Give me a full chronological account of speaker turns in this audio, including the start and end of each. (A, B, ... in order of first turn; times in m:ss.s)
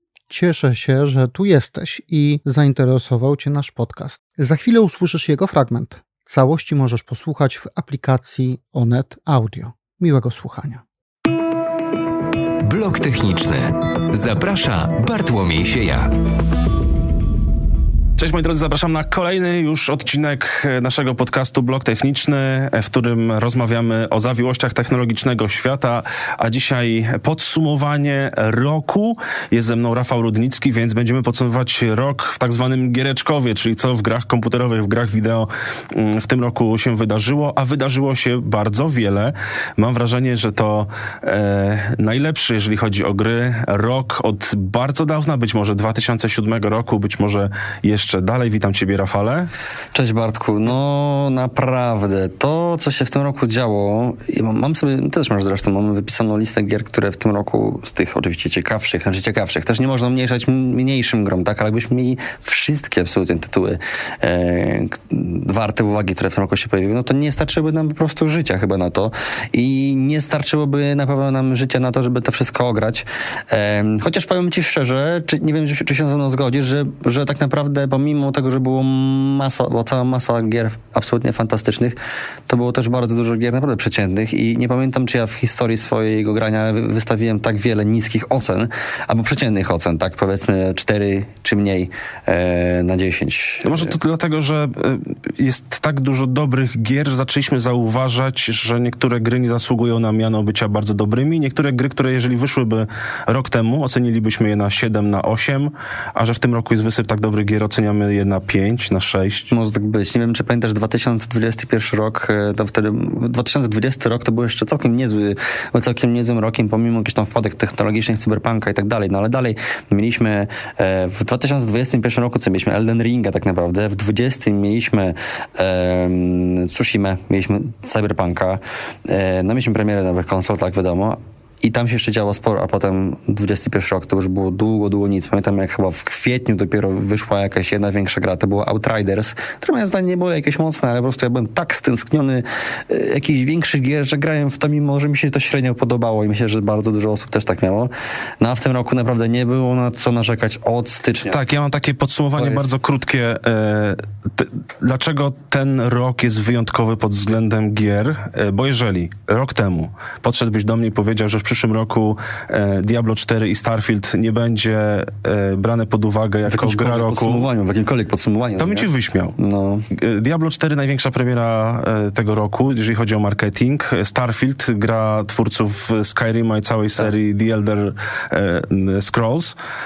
0:00.3-0:10.8 A
0:12.7-0:16.1 B
0:18.2-0:49.5 C
0:49.9-1:22.0 D
1:22.5-1:34.0 D
1:33.6-1:49.5 C
1:49.5-2:31.4 D
2:31.3-2:47.5 C
2:32.4-2:32.8 D
2:46.5-2:49.9 D
2:48.6-2:49.4 C
2:49.9-2:59.6 C